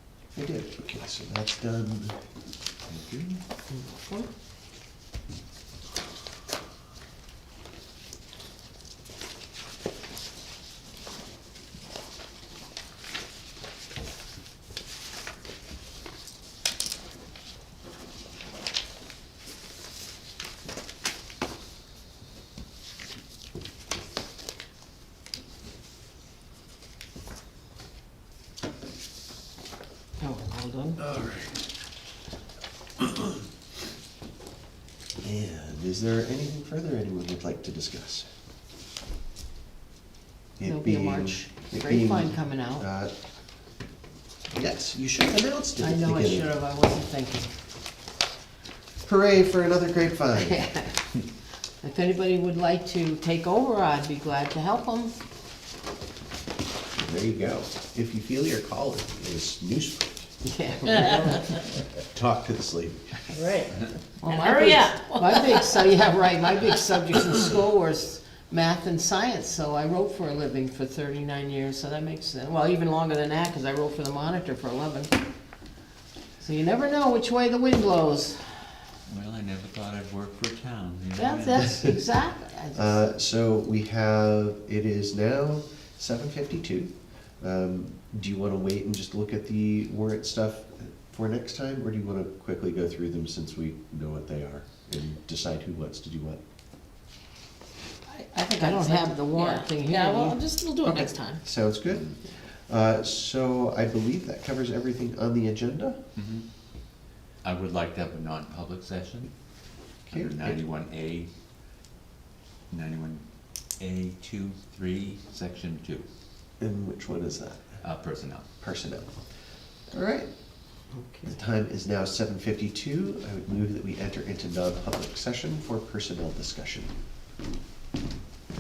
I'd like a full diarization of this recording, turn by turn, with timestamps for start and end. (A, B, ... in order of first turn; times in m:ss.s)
0:00.3-0:02.2 A
0:02.9-0:03.4 B
0:03.7-0:04.3 C
0:30.2-0:31.0 C
0:31.0-0:31.6 A
0:33.0-0:33.4 A
0:35.2-0:38.3 A
0:40.6-0:43.1 A
0:40.6-0:42.8 C
0:44.5-0:46.5 A
0:45.8-0:47.5 C
0:49.0-0:50.6 A
0:50.3-0:51.0 C
0:51.8-0:55.1 C
0:57.0-1:00.3 A
1:00.4-1:01.6 C
1:01.0-1:01.4 D
1:01.9-1:03.3 A
1:03.3-1:05.8 D
1:04.2-1:15.1 C
1:16.4-1:18.8 C
1:19.1-1:21.7 B
1:21.2-1:23.0 C
1:21.6-1:21.9 A
1:22.7-1:36.4 A
1:38.1-1:41.4 D
1:38.5-1:40.4 C
1:40.8-1:42.1 A
1:41.9-1:42.2 B
1:42.7-1:46.0 A
1:46.2-1:46.4 B
1:47.4-1:49.3 B
1:50.1-1:50.6 A
1:50.1-1:51.3 B
1:52.7-1:53.2 B
1:53.8-1:56.1 B
1:56.6-1:57.8 A
1:57.8-1:58.4 B
1:58.6-1:59.1 A
1:59.9-2:00.3 A
2:00.9-2:01.3 C
2:01.2-2:06.9 A